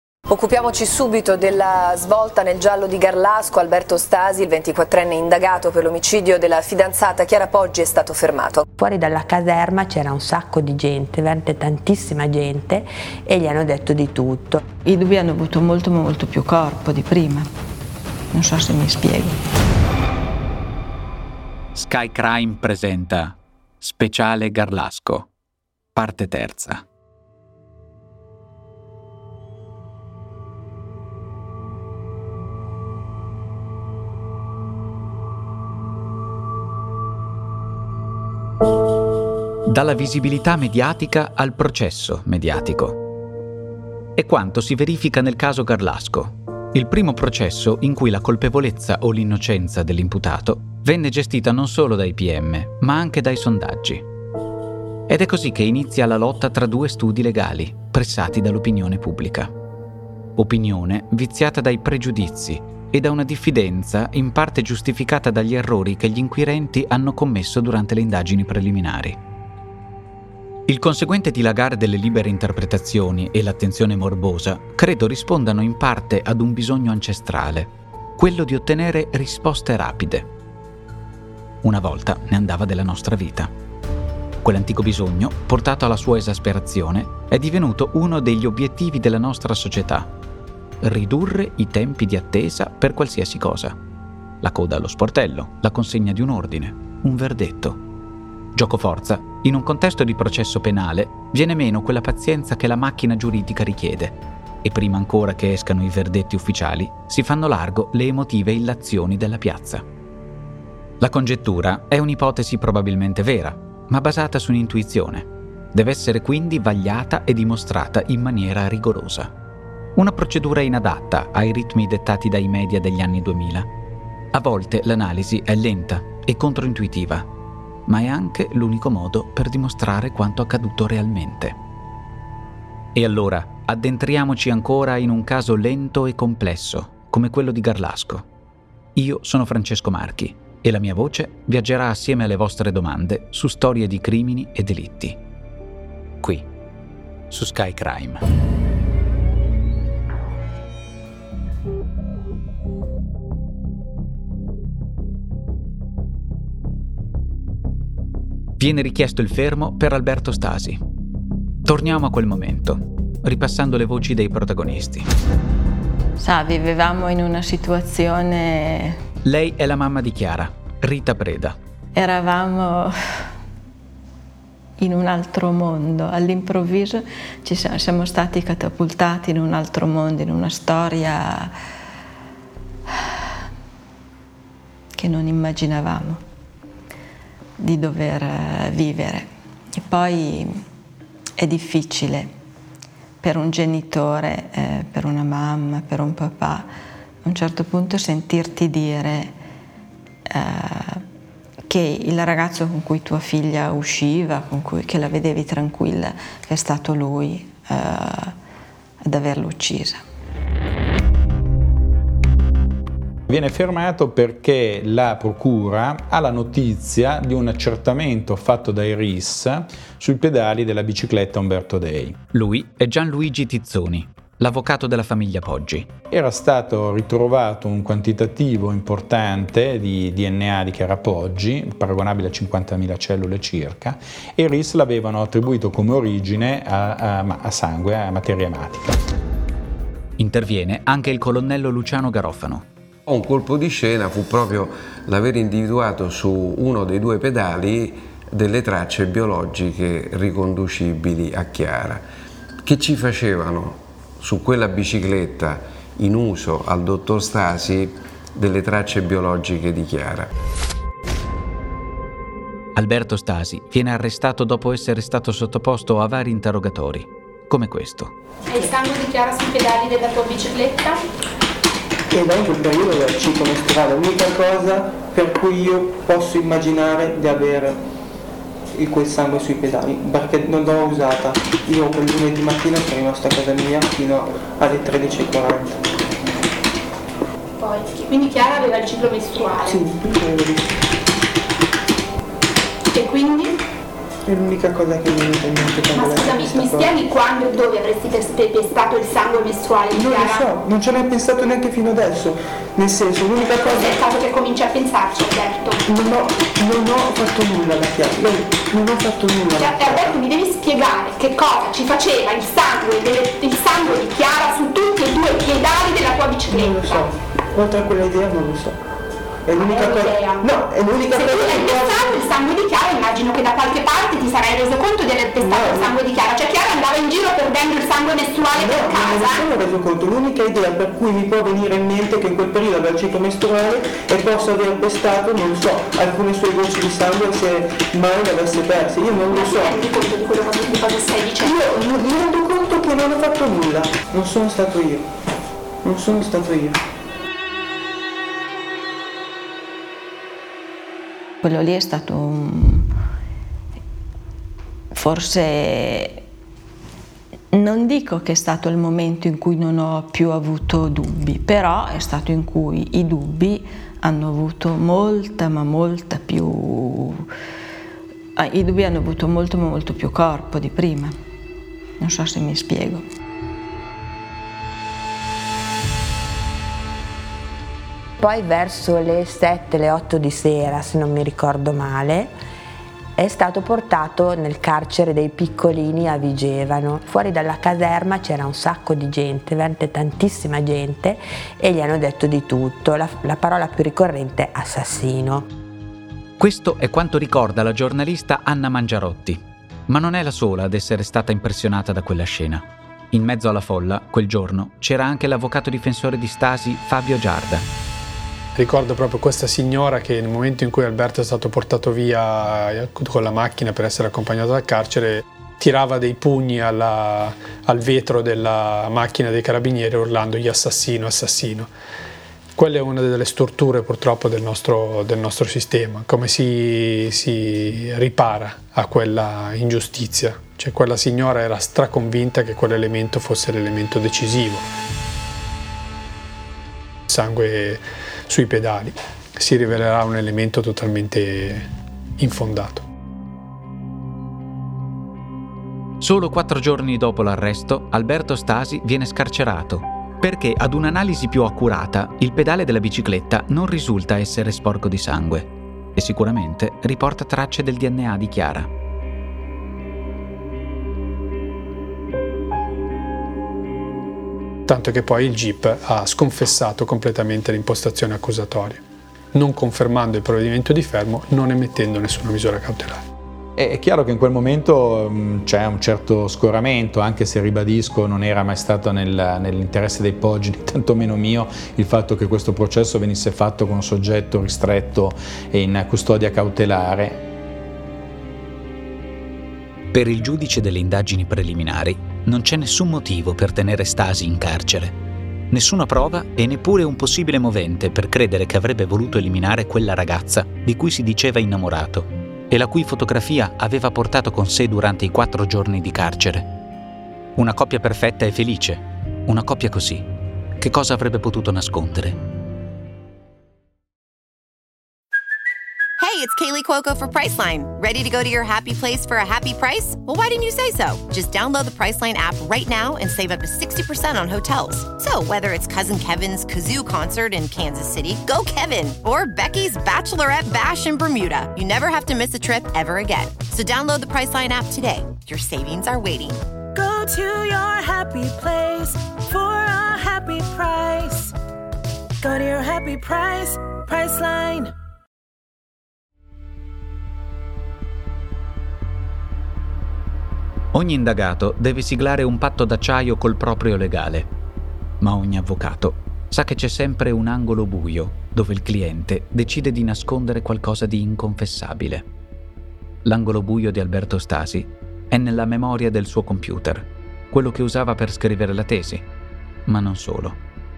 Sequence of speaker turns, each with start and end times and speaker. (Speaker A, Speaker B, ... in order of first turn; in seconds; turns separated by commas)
Speaker A: 0.3-8.7, Speaker B: 8.8-14.6, Speaker C: 14.8-17.5, Speaker C: 18.3-19.4, Speaker D: 21.8-25.3, Speaker D: 25.9-26.9, Speaker D: 39.7-43.0, Speaker D: 44.2-54.0, Speaker D: 55.1-59.5, Speaker D: 60.4-69.2, Speaker D: 70.7-80.3, Speaker D: 81.6-83.5, Speaker D: 84.4-90.1, Speaker D: 90.8-93.8, Speaker D: 94.4-97.8, Speaker D: 98.5-109.8, Speaker D: 111.0-119.3, Speaker D: 120.0-123.7, Speaker D: 124.3-127.3, Speaker D: 127.9-131.6, Speaker D: 132.9-138.3, Speaker D: 138.9-145.2, Speaker D: 146.2-146.5, Speaker D: 147.3-148.2, Speaker D: 158.6-160.8, Speaker D: 161.7-165.1, Speaker C: 166.2-169.0, Speaker D: 169.2-171.6, Speaker C: 172.0-172.9, Speaker C: 174.8-181.5, Speaker C: 184.9-186.2, Speaker C: 187.6-190.6, Speaker C: 191.4-192.3, Speaker C: 193.2-196.7, Speaker C: 197.2-199.3, Speaker C: 200.3-201.0, Speaker C: 201.7-208.4, Speaker C: 209.0-210.0, Speaker E: 213.3-222.2, Speaker D: 222.3-225.9, Speaker E: 226.1-239.0, Speaker D: 240.2-242.7, Speaker F: 243.1-252.1, Speaker F: 252.7-260.3, Speaker D: 262.8-268.1, Speaker G: 268.5-271.0, Speaker H: 272.1-277.8, Speaker H: 278.7-285.8, Speaker G: 287.6-289.8, Speaker H: 289.6-290.7, Speaker G: 292.9-293.6, Speaker H: 294.3-296.9, Speaker G: 295.9-300.5, Speaker H: 299.9-304.0, Speaker G: 303.6-305.8, Speaker H: 305.9-310.1, Speaker G: 309.6-317.1, Speaker H: 316.5-318.8, Speaker H: 319.5-322.2, Speaker G: 319.6-329.5, Speaker H: 325.4-325.9, Speaker H: 328.6-339.8, Speaker G: 339.3-341.7, Speaker H: 341.4-345.0, Speaker H: 345.8-346.8, Speaker C: 351.4-352.9, Speaker C: 354.9-356.2, Speaker C: 357.5-367.2, Speaker C: 368.4-371.1, Speaker C: 372.0-373.1, Speaker B: 378.2-382.3, Speaker B: 383.2-395.5, Speaker D: 396.4-407.7, Speaker I: 408.6-421.7, Speaker I: 422.6-434.6, Speaker I: 437.1-441.7, Speaker I: 442.2-442.9, Speaker D: 446.0-458.7, Speaker I: 464.7-468.8, Speaker I: 469.3-473.0, Speaker E: 473.6-487.2, Speaker D: 489.9-495.0, Speaker D: 495.5-506.5, Speaker D: 507.4-510.1, Speaker D: 510.6-512.2, Speaker J: 516.0-536.4, Speaker K: 536.7-541.3, Speaker K: 542.2-544.7, Speaker D: 550.7-554.3, Speaker D: 555.0-562.1, Speaker D: 563.0-569.1, Speaker D: 569.7-570.4